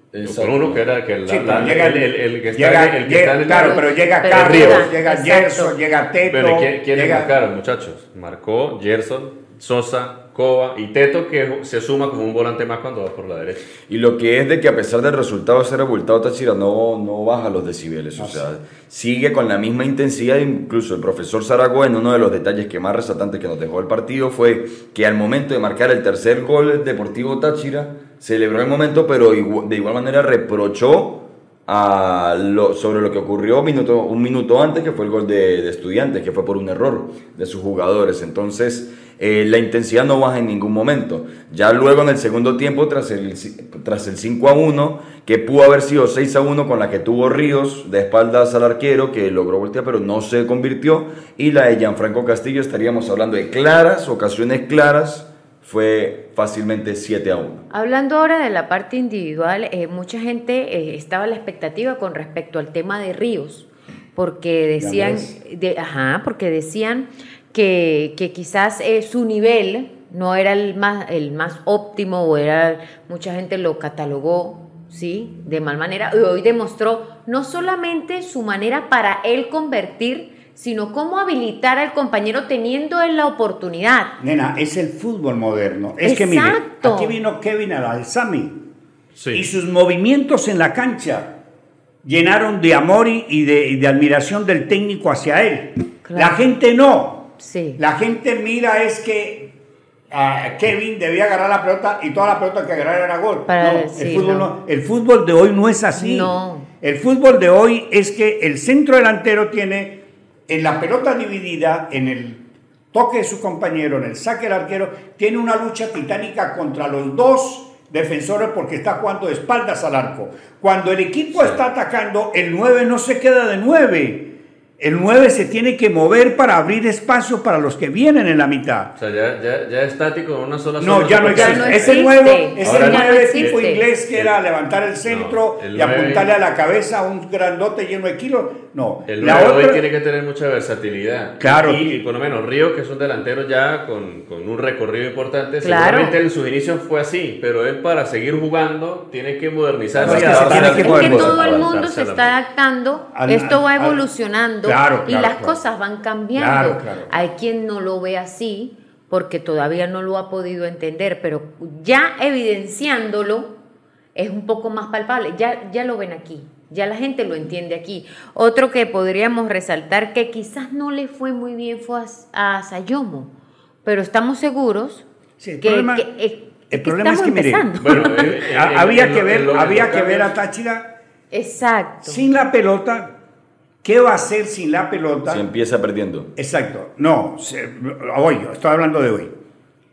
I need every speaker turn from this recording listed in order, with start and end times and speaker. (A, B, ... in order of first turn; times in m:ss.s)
0:00.1-0:00.8 A
0:00.2-0:04.9 B
0:01.2-0:07.3 C
0:03.5-0:05.8 D
0:06.3-0:13.6 B
0:13.9-0:57.6 A
0:18.2-0:18.4 C
0:57.7-1:24.1 D
1:04.8-1:05.4 C
1:24.2-1:28.6 C
1:26.0-1:27.2 D
1:29.1-1:29.4 B
1:29.3-1:31.3 C
1:32.0-1:39.5 C
1:36.0-1:36.4 D
1:37.4-1:37.8 D
1:40.1-2:08.9 C
1:43.5-1:44.5 D
1:46.0-1:46.7 D
2:09.0-2:14.3 B
2:10.8-2:19.8 C
2:11.3-2:13.8 D
2:15.0-2:16.3 B
2:19.0-2:32.4 B
2:21.4-2:21.8 C
2:25.6-2:26.1 D
2:29.9-2:31.7 A
2:30.0-2:31.3 C
2:30.3-2:43.6 D
2:33.1-2:34.0 C
2:34.6-2:35.6 C
2:36.3-2:37.1 C
2:44.1-2:53.3 D
2:53.8-2:55.0 D
2:55.4-2:56.1 C
2:55.6-2:58.3 D
2:56.7-3:00.9 C
2:57.8-3:00.3 B
3:01.3-3:02.2 D
3:02.0-3:03.1 C
3:03.8-3:05.4 C
3:05.3-3:06.3 A
3:06.4-3:09.3 C